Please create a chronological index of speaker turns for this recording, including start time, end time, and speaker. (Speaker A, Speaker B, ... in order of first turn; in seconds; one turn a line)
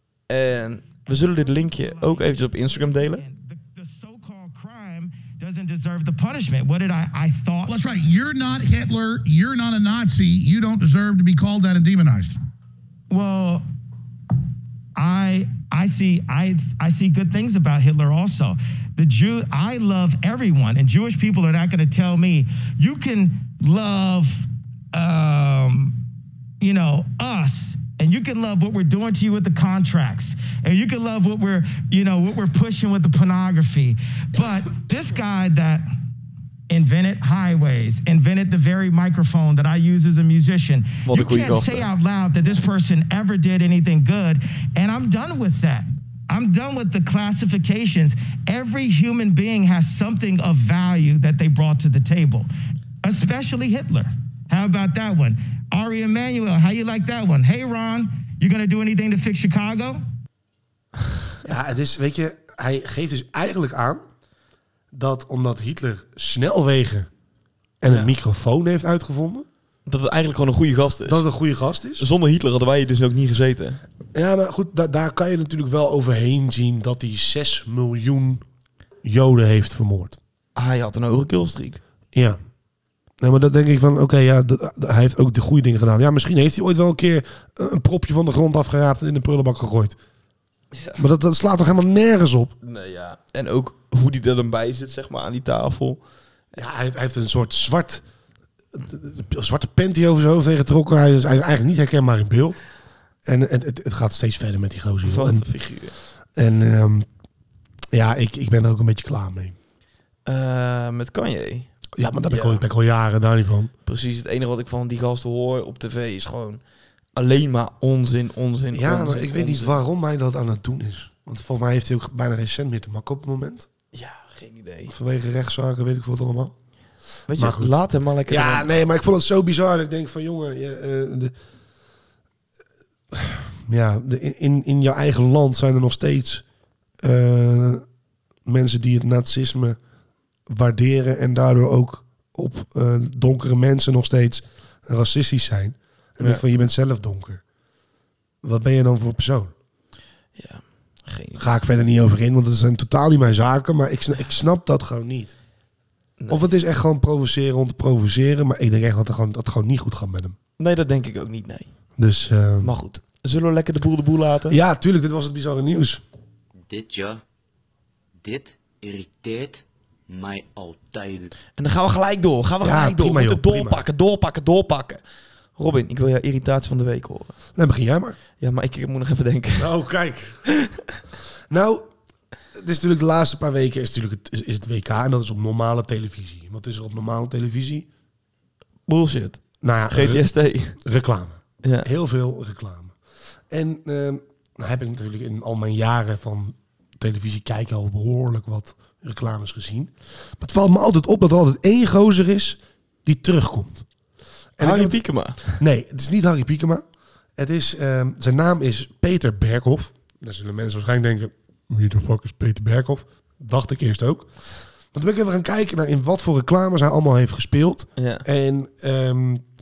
Speaker A: 0.3-3.2
Speaker B: 1.1-7.9
Speaker C: 7.7-12.4
Speaker B: 13.1-13.6
Speaker B: 15.0-26.0
Speaker B: 26.6-35.9
Speaker B: 36.7-52.5
Speaker A: 41.0-41.9
Speaker B: 53.0-60.0
Speaker D: 61.5-64.0
Speaker D: 64.9-67.1
Speaker D: 67.8-69.5
Speaker A: 67.9-68.1
Speaker A: 69.9-71.2
Speaker D: 71.1-72.1
Speaker A: 72.0-73.8
Speaker D: 74.1-78.4
Speaker D: 79.0-80.2
Speaker A: 80.6-81.8
Speaker D: 82.1-82.4
Speaker D: 83.2-90.0
Speaker A: 90.7-91.0
Speaker D: 91.0-92.5
Speaker A: 92.6-96.0
Speaker D: 96.5-98.0
Speaker D: 98.7-102.6
Speaker D: 103.3-105.5
Speaker A: 105.0-106.0
Speaker D: 106.3-107.1
Speaker D: 107.9-109.6
Speaker A: 110.2-111.7
Speaker D: 112.0-113.7
Speaker A: 112.3-112.6
Speaker A: 113.9-116.6
Speaker A: 117.1-119.8
Speaker D: 118.7-123.7
Speaker A: 123.9-124.9
Speaker D: 124.9-126.5
Speaker A: 127.3-128.8
Speaker D: 127.3-127.8
Speaker D: 128.3-131.3
Speaker D: 133.1-136.4
Speaker D: 137.0-137.8
Speaker D: 138.5-139.8
Speaker D: 140.5-147.4
Speaker D: 148.4-149.5
Speaker A: 150.4-151.6
Speaker D: 151.4-155.3
Speaker A: 156.2-156.5
Speaker D: 156.3-160.4
Speaker A: 160.6-161.7
Speaker D: 162.0-162.7
Speaker A: 162.6-164.6
Speaker D: 164.5-166.0
Speaker E: 166.7-167.2
Speaker E: 168.2-171.3
Speaker A: 171.6-175.0
Speaker D: 172.6-173.8
Speaker A: 175.6-177.4
Speaker D: 177.6-178.2
Speaker A: 178.4-179.7
Speaker D: 179.6-180.4
Speaker A: 180.5-180.8
Speaker D: 181.5-181.9
Speaker D: 182.5-187.9
Speaker A: 188.9-190.8
Speaker D: 189.6-192.9
Speaker A: 191.6-191.9
Speaker D: 193.5-203.8
Speaker D: 204.6-206.8
Speaker A: 204.6-205.6
Speaker D: 207.4-214.3
Speaker D: 214.9-219.5
Speaker A: 218.0-218.2